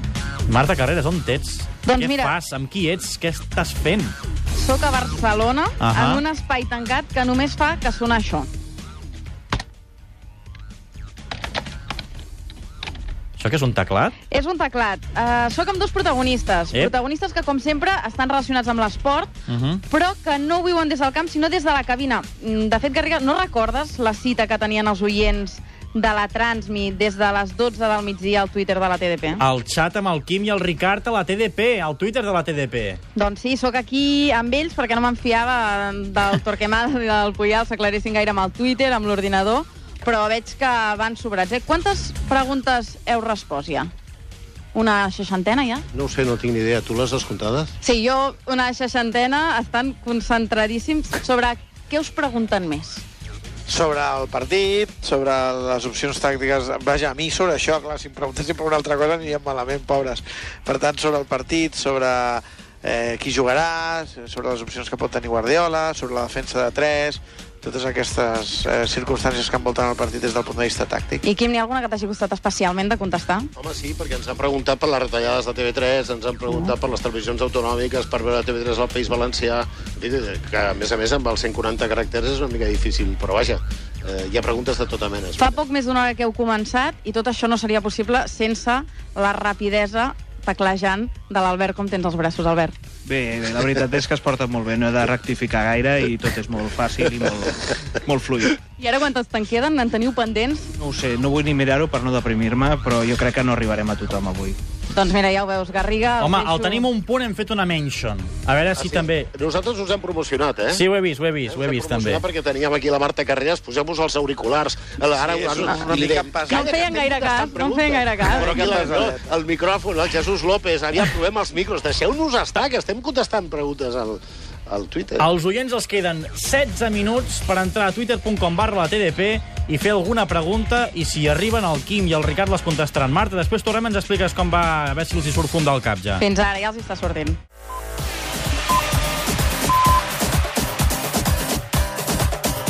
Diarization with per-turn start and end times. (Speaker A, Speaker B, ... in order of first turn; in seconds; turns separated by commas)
Speaker A: 0.5-4.2, Speaker B: 1.8-2.4, Speaker B: 4.6-8.5, Speaker A: 5.8-6.2, Speaker A: 13.4-14.2, Speaker B: 14.3-19.4, Speaker A: 19.5-19.8, Speaker B: 19.9-29.4, Speaker A: 29.4-33.0, Speaker B: 33.1-43.9, Speaker B: 44.7-45.9, Speaker C: 45.9-47.7, Speaker B: 47.8-53.0, Speaker D: 53.7-71.2, Speaker B: 71.2-73.5, Speaker C: 73.6-85.6, Speaker B: 76.5-76.7, Speaker B: 85.4-92.8, Speaker E: 93.0-98.6, Speaker B: 98.8-100.7, Speaker E: 100.8-104.6, Speaker B: 104.9-106.9, Speaker A: 106.2-109.3, Speaker C: 108.8-110.8, Speaker A: 110.7-112.2, Speaker C: 111.5-125.3, Speaker D: 115.2-116.8, Speaker B: 115.6-115.9, Speaker B: 116.5-118.6, Speaker D: 118.5-119.2, Speaker A: 125.2-136.2, Speaker B: 136.2-137.4